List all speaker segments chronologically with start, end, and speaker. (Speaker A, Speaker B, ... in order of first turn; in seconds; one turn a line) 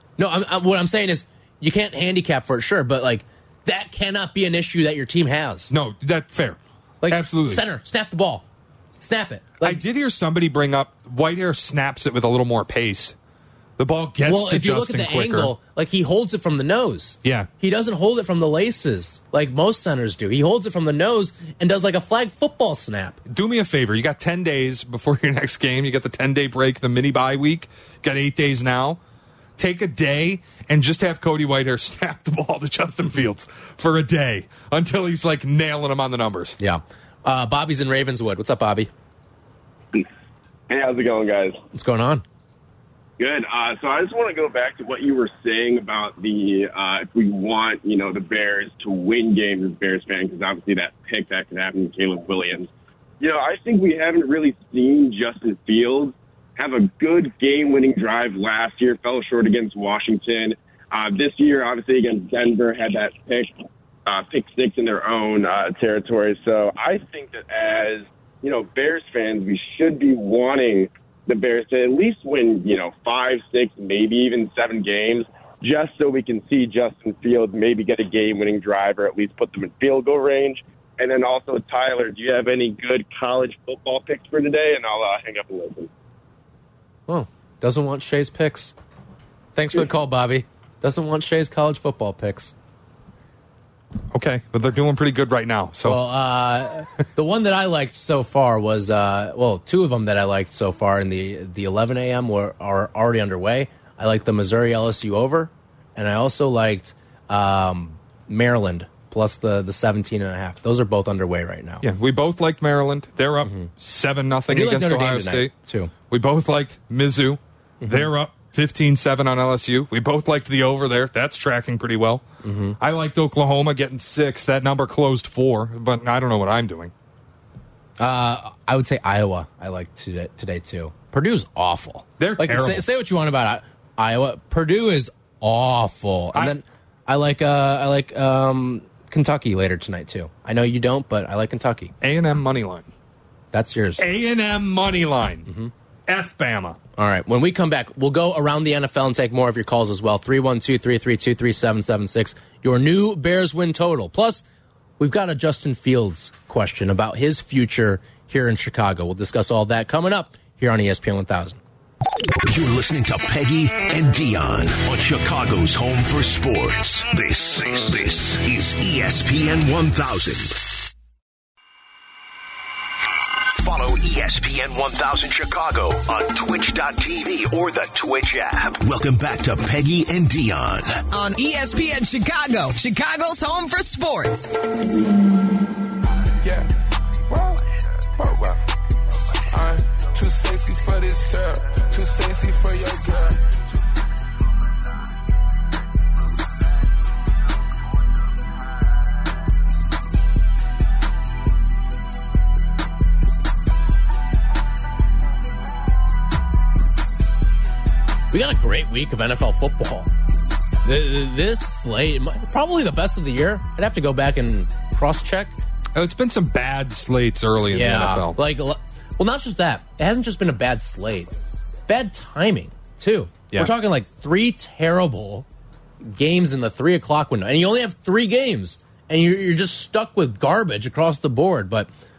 Speaker A: 0.2-5.7
Speaker B: 5.7-7.6
Speaker A: 7.0-8.4
Speaker A: 9.0-9.8
Speaker B: 9.6-13.2
Speaker B: 13.8-15.5
Speaker A: 14.3-23.2
Speaker B: 17.2-17.5
Speaker B: 23.3-29.0
Speaker B: 29.6-36.6
Speaker A: 36.6-38.9
Speaker C: 40.7-41.6
Speaker A: 41.7-42.2
Speaker C: 43.2-63.5
Speaker C: 64.1-85.9
Speaker A: 87.1-88.8
Speaker A: 89.5-92.5
Speaker B: 94.1-96.0
Speaker A: 95.8-111.8
Speaker B: 111.8-115.5
Speaker A: 114.5-115.9
Speaker B: 116.1-122.2
Speaker A: 117.8-118.1
Speaker A: 122.4-122.8
Speaker B: 122.8-126.9
Speaker A: 128.0-141.9
Speaker B: 132.2-132.8
Speaker B: 142.0-142.9
Speaker A: 143.5-144.1
Speaker B: 144.0-145.5
Speaker A: 145.5-145.7
Speaker B: 146.1-146.8
Speaker A: 147.0-154.4
Speaker A: 155.0-161.6
Speaker D: 162.5-170.6
Speaker D: 173.6-181.0
Speaker E: 181.1-184.5
Speaker F: 186.4-186.7
Speaker F: 187.3-187.6
Speaker F: 188.2-188.6
Speaker F: 189.5-193.6
Speaker A: 208.3-210.1
Speaker A: 210.8-215.6
Speaker B: 215.9-218.4
Speaker A: 217.7-221.3
Speaker A: 221.9-225.5
Speaker A: 226.0-231.9